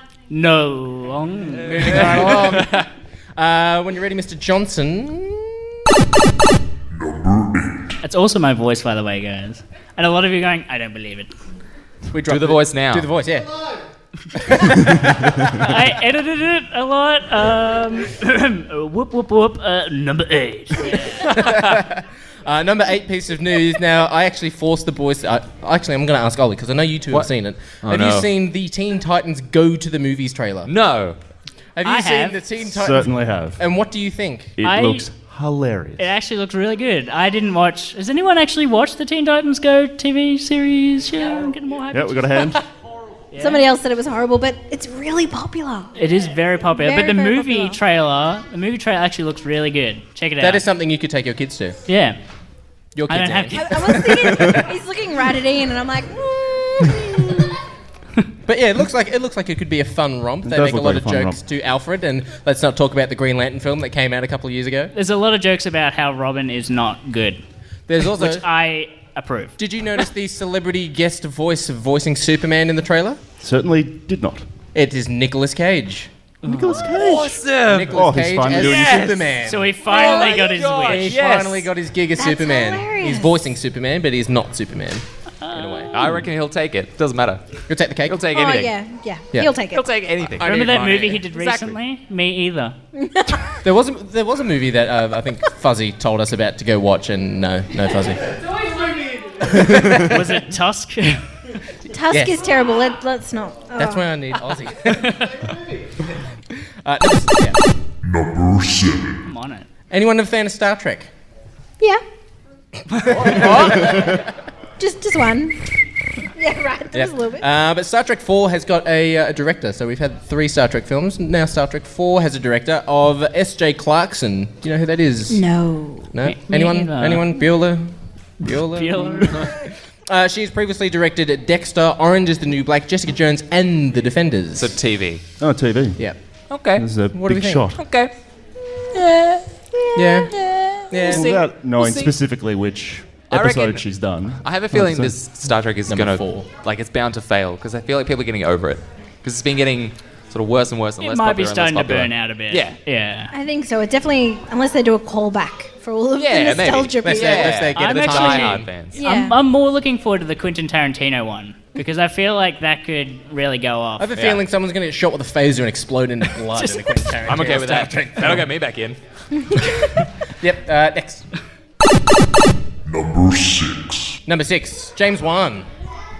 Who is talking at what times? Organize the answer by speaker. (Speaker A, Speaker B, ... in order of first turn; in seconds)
Speaker A: 0.3-2.4, 8.0-11.3, 15.6-21.4, 31.8-32.4, 34.6-35.1, 36.0-42.6, 43.3-43.7, 46.0-50.6, 51.9-52.2, 53.1-54.0, 64.9-67.4, 68.1-69.5, 76.4-77.0, 79.4-81.2, 85.4-86.2, 90.4-92.8, 99.9-101.2, 105.0-105.4, 109.2-109.7, 126.2-127.3, 128.7-129.5, 151.0-153.3, 157.7-164.1, 166.5-167.1
Speaker B: 1.6-2.8, 3.4-5.6, 12.1-13.5, 14.4-15.3, 21.2-30.7, 31.8-34.5, 50.4-51.8, 52.9-54.6, 58.5-64.9, 67.9-68.5, 69.6-73.2, 74.7-76.1, 77.6-80.2, 80.8-85.9, 87.7-88.2, 90.4-91.2, 93.6-98.2, 99.4-100.1, 103.8-105.1, 106.8-107.6, 109.9-111.1, 113.0-114.3, 116.9-125.4, 126.1-129.5, 130.1-134.7, 137.1-137.6, 139.9-140.3, 140.9-141.3, 145.9-146.5, 157.0-158.7, 164.0-168.4, 170.4-171.2, 174.2-175.7
Speaker C: 1.8-2.9, 12.3-13.1, 27.8-28.3, 30.6-31.2, 76.9-79.3, 79.8-81.7, 85.9-87.4, 88.0-88.7, 89.7-91.8, 113.3-113.8, 134.6-135.2, 136.5-136.9, 137.8-138.1, 138.9-139.4, 140.3-142.1, 143.3-152.8, 156.2-159.0, 164.1-164.4, 167.2-169.0
Speaker D: 6.9-8.0, 108.0-109.2, 172.8-174.2
Speaker E: 32.6-33.6, 34.6-36.1, 41.9-42.6, 60.4-61.4, 73.4-74.5, 76.4-79.1, 135.4-136.1, 136.7-137.8, 141.1-145.1
Speaker F: 43.4-46.0, 46.7-47.8, 53.5-57.5, 82.2-83.4, 88.3-89.9, 93.0-93.5, 101.9-104.1, 114.8-115.6, 116.2-117.5, 125.3-126.2, 153.3-157.6, 158.9-159.4